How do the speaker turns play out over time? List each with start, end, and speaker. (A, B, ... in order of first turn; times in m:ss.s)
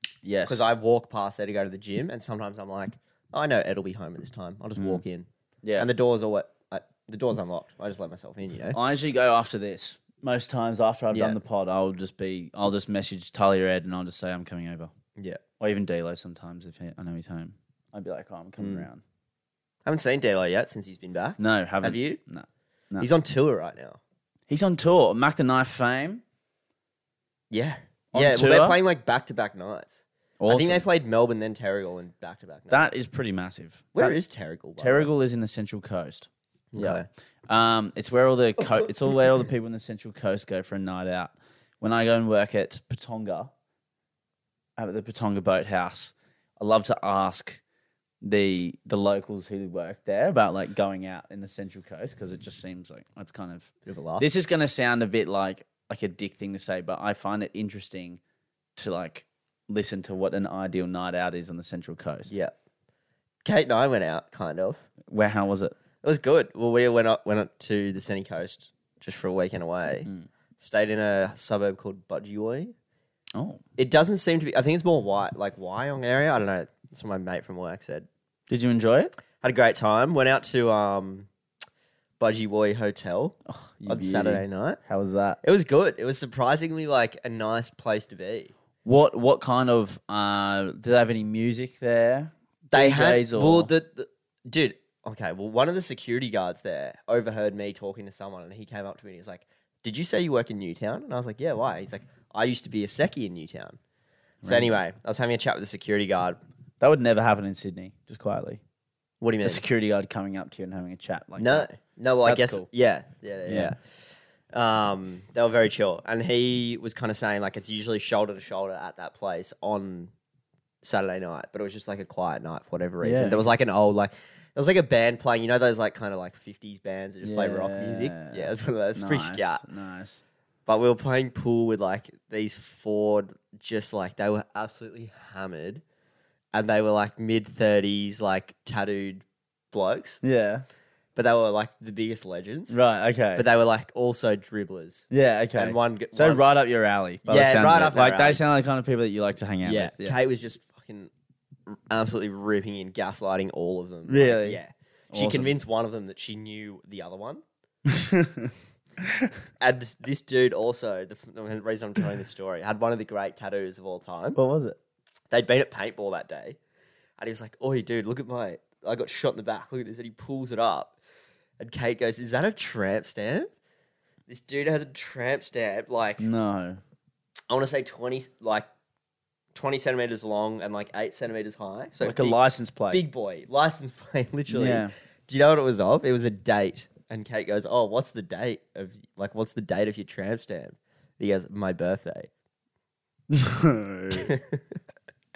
0:00.2-0:00.6 A
0:00.5-0:08.8 B
0:04.8-0:05.0 A
0:08.7-0:14.9 A
0:11.1-0:11.4 B
0:15.2-0:15.4 B
0:15.6-0:19.0 A
0:18.6-0:18.9 B
0:19.8-0:22.2 B
0:21.4-0:23.1 A
0:23.0-0:24.0 B
0:24.5-0:26.2 A
0:27.5-0:33.0 B
0:28.1-0:28.8 A
0:30.4-0:30.8 A
0:32.7-0:34.2 A
0:34.0-0:35.1 B
0:34.8-0:43.5 A
0:36.7-0:37.1 B
0:44.8-0:47.6 A
0:48.2-0:58.2 A
0:53.9-0:54.3 B
0:58.8-1:02.3 A
1:02.3-1:02.5 B
1:03.4-1:04.8 B
1:05.1-1:05.8 A
1:06.0-1:12.7 B
1:13.4-1:13.6 A
1:13.8-1:18.1 B
1:18.5-1:19.1 A
1:19.4-1:21.3 B
1:22.2-1:24.8 B
1:23.5-1:25.4 A
1:25.4-1:28.5 B
1:28.8-1:33.7 A
1:32.7-1:43.8 B
1:44.4-1:44.8 A
1:44.4-1:46.4 B
1:46.8-1:48.6 A
1:49.2-1:49.6 B
1:49.4-1:51.7 A
1:51.4-1:53.8 B
1:52.2-1:52.7 A
1:53.5-1:53.7 A
1:54.5-2:00.1 B
2:00.8-2:09.6 B
2:03.0-2:03.5 A
2:07.2-2:10.2 A
2:10.7-2:15.8 B
2:16.5-2:20.2 B
2:20.2-2:20.6 A
2:21.2-2:22.8 B
2:22.7-2:23.5 A
2:23.4-2:26.4 B
2:25.1-2:30.2 A
2:27.3-2:28.4 B
2:29.6-2:31.1 B
2:31.7-2:37.4 B
2:34.1-2:34.6 A
2:35.1-2:35.5 A
2:37.9-2:38.5 A
2:39.0-2:39.3 A
2:39.6-2:44.4 B
2:44.4-2:44.8 A
2:45.3-2:46.6 B
2:47.2-2:51.0 B
2:51.6-2:53.5 B
2:54.3-2:56.3 B
2:56.2-2:56.8 A
2:57.5-2:58.7 B
2:59.5-3:02.4 B
3:02.0-3:03.0 A
3:02.9-3:12.3 B
3:04.5-3:04.9 A
3:13.3-3:14.4 A
3:14.1-3:14.6 B